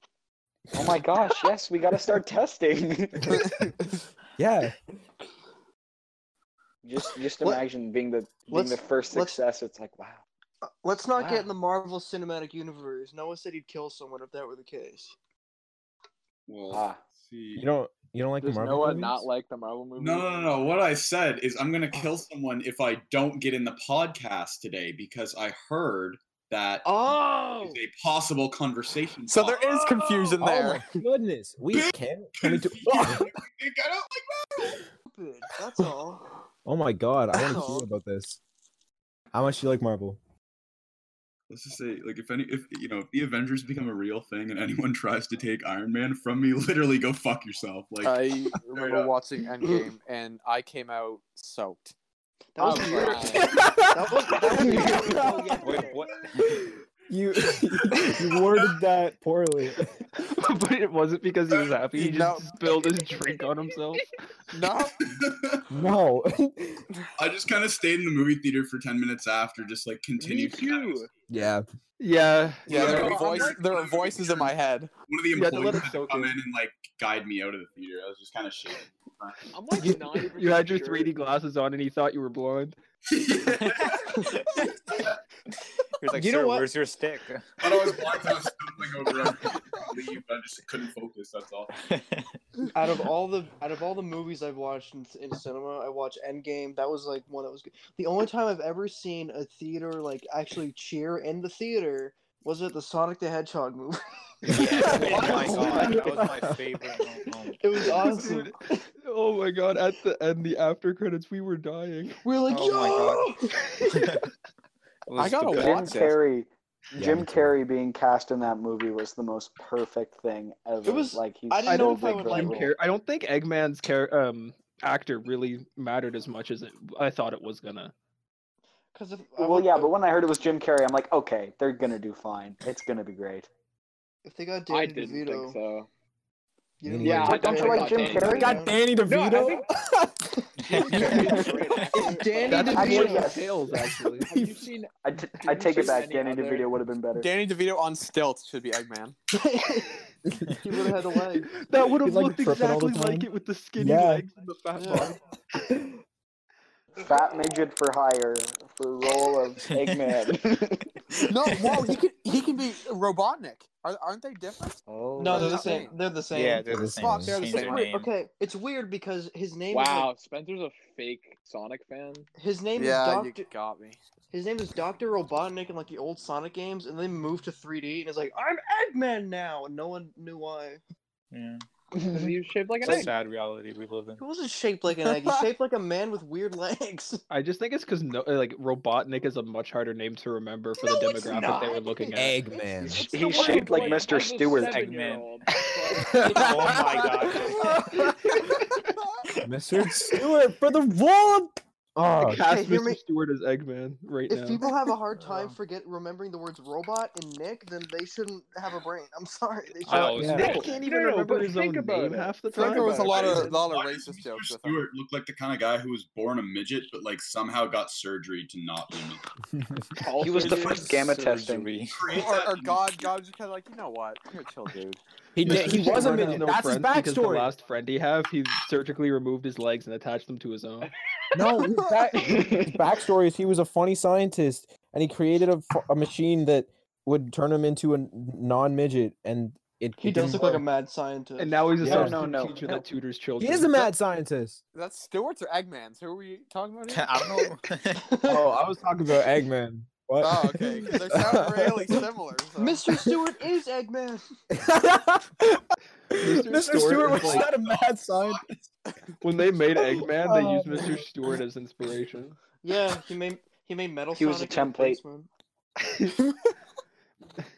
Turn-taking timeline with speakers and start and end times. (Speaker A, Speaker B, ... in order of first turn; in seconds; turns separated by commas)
Speaker A: 0.7-3.5, Speaker B: 4.4-4.8, Speaker A: 6.8-10.2, Speaker C: 8.5-9.4, Speaker C: 10.6-15.1, Speaker A: 11.2-11.5, Speaker D: 16.5-17.7, Speaker A: 16.7-17.0, Speaker B: 17.6-19.2, Speaker E: 18.4-20.7, Speaker D: 20.0-30.4, Speaker C: 21.9-22.2, Speaker C: 26.8-27.8, Speaker F: 29.3-30.9, Speaker B: 30.4-33.3, Speaker D: 31.7-34.8, Speaker C: 35.0-36.2, Speaker B: 36.6-38.4, Speaker C: 37.3-37.9, Speaker B: 39.3-40.2, Speaker D: 41.5-49.1, Speaker F: 48.0-51.9, Speaker C: 52.5-56.0, Speaker F: 52.6-53.4, Speaker E: 52.6-53.6, Speaker B: 53.4-55.6, Speaker G: 54.5-56.5, Speaker B: 56.4-59.9, Speaker D: 57.4-58.8, Speaker H: 60.2-64.0, Speaker D: 61.5-61.8, Speaker F: 62.0-62.6, Speaker F: 64.5-65.0, Speaker D: 65.0-65.7, Speaker B: 65.7-66.8, Speaker D: 67.2-71.0, Speaker E: 70.2-71.1, Speaker B: 71.3-71.6, Speaker H: 72.0-73.3, Speaker E: 72.7-73.8, Speaker F: 72.7-74.9, Speaker D: 72.7-79.5, Speaker H: 75.3-76.4, Speaker E: 79.5-81.1, Speaker H: 79.8-82.8, Speaker D: 83.1-84.2, Speaker D: 84.8-85.2, Speaker G: 86.0-88.1, Speaker C: 86.1-86.7, Speaker D: 87.6-91.7, Speaker G: 91.8-92.3, Speaker C: 92.7-106.4, Speaker G: 104.4-108.2, Speaker H: 104.5-106.8, Speaker C: 107.5-108.8, Speaker H: 107.9-112.2, Speaker C: 112.2-114.0, Speaker G: 112.5-114.3, Speaker G: 115.1-116.2, Speaker F: 115.2-116.2, Speaker A: 115.5-122.7, Speaker B: 116.9-117.6, Speaker C: 120.8-122.7, Speaker H: 121.6-127.9, Speaker C: 128.9-129.9, Speaker A: 129.4-133.5, Speaker C: 134.2-135.6, Speaker E: 134.7-135.9, Speaker C: 136.8-138.8, Speaker B: 136.8-140.2, Speaker E: 137.0-139.7, Speaker A: 137.2-138.5, Speaker C: 140.3-143.3, Speaker E: 140.6-142.9, Speaker G: 140.7-141.8, Speaker F: 142.5-142.8, Speaker H: 142.5-144.3, Speaker A: 142.7-143.5, Speaker E: 144.2-146.7, Speaker A: 145.0-147.3, Speaker F: 147.1-149.2, Speaker C: 149.3-150.0, Speaker C: 150.6-151.5, Speaker H: 151.4-155.2, Speaker B: 151.8-154.3, Speaker C: 154.8-155.2, Speaker A: 157.0-161.0, Speaker G: 159.7-160.1, Speaker F: 161.3-165.9, Speaker G: 164.9-165.7, Speaker A: 165.1-165.6, Speaker C: 165.2-166.7, Speaker G: 166.3-168.1, Speaker B: 166.7-167.4, Speaker F: 167.0-167.9, Speaker C: 167.3-170.1, Speaker E: 169.7-172.3, Speaker C: 172.4-173.5, Speaker F: 172.8-174.0, Speaker C: 174.3-180.8, Speaker G: 181.3-184.2, Speaker E: 182.1-183.1, Speaker C: 184.2-187.2, Speaker F: 185.0-185.5, Speaker H: 187.3-192.4, Speaker C: 191.2-192.1, Speaker B: 192.1-193.0, Speaker G: 192.9-194.0, Speaker E: 192.9-196.8, Speaker A: 193.1-194.8, Speaker G: 194.6-195.3, Speaker G: 196.0-198.1, Speaker B: 196.1-196.8, Speaker C: 197.3-197.8, Speaker B: 197.6-198.1, Speaker B: 199.4-202.4, Speaker H: 202.2-204.7, Speaker C: 202.4-203.0, Speaker C: 204.3-210.7, Speaker G: 205.2-205.5, Speaker G: 209.8-210.7, Speaker H: 209.8-213.6, Speaker E: 210.3-213.6, Speaker F: 212.5-214.9, Speaker D: 213.1-219.3, Speaker E: 219.9-220.9, Speaker A: 220.2-221.7, Speaker G: 220.4-222.1, Speaker D: 220.5-221.0, Speaker D: 221.9-223.1, Speaker F: 222.1-225.0, Speaker B: 225.3-227.5, Speaker H: 225.4-230.9, Speaker B: 231.3-240.6, Speaker A: 232.2-232.8, Speaker C: 240.0-241.8, Speaker H: 241.4-243.9, Speaker B: 241.8-242.2, Speaker A: 241.8-242.8, Speaker B: 243.4-244.6, Speaker F: 244.7-247.5, Speaker G: 246.9-248.1, Speaker C: 248.0-248.4, Speaker B: 248.2-252.0, Speaker F: 250.2-252.8, Speaker C: 252.6-254.2, Speaker B: 254.5-258.4, Speaker H: 256.1-257.5, Speaker D: 257.1-258.6, Speaker H: 259.2-262.4, Speaker B: 260.2-261.0, Speaker C: 262.6-265.3, Speaker A: 264.1-265.0